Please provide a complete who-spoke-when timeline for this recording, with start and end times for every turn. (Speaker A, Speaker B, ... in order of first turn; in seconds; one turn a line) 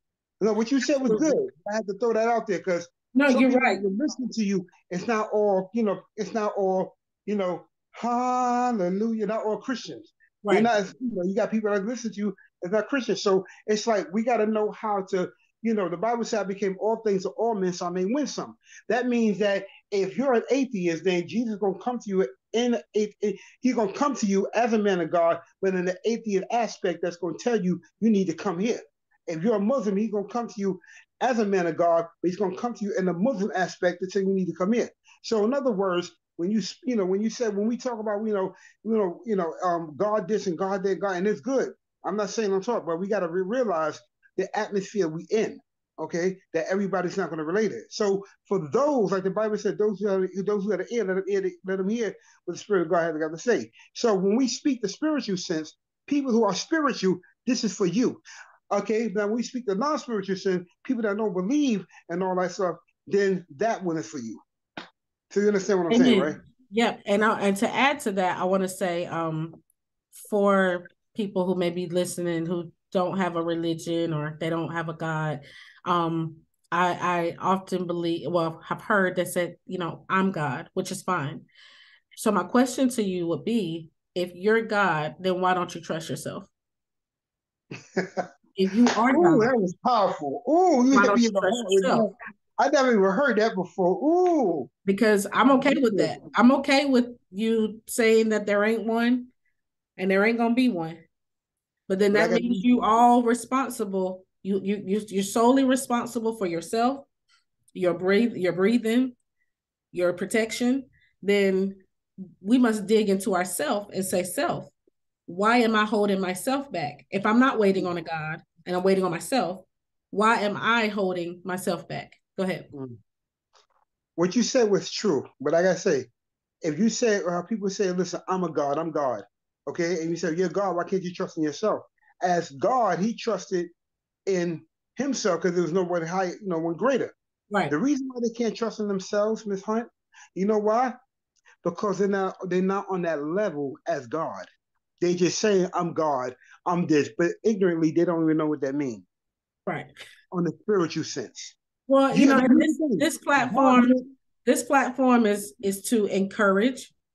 Speaker A: 0.4-64.4
Speaker B: 1.0-1.4
Speaker B: 3.1-3.8
Speaker B: 10.4-10.7
Speaker A: 65.3-66.4
Speaker B: 65.9-69.6
Speaker B: 70.1-81.5
Speaker B: 82.2-86.5
Speaker A: 87.9-88.3
Speaker B: 88.6-89.5
Speaker A: 89.1-94.7
Speaker B: 90.9-92.1
Speaker B: 94.9-99.3
Speaker A: 95.5-96.1
Speaker B: 100.0-101.0
Speaker B: 101.9-107.1
Speaker A: 102.1-102.6
Speaker B: 107.7-109.1
Speaker B: 109.9-111.8
Speaker B: 112.4-114.7
Speaker B: 115.3-122.7
Speaker A: 122.7-123.0
Speaker A: 124.2-126.1
Speaker A: 126.6-133.7
Speaker A: 134.3-137.1
Speaker A: 137.7-140.9
Speaker A: 141.6-144.5
Speaker A: 145.0-149.1
Speaker A: 150.3-151.6
Speaker B: 151.9-156.9
Speaker A: 152.1-154.1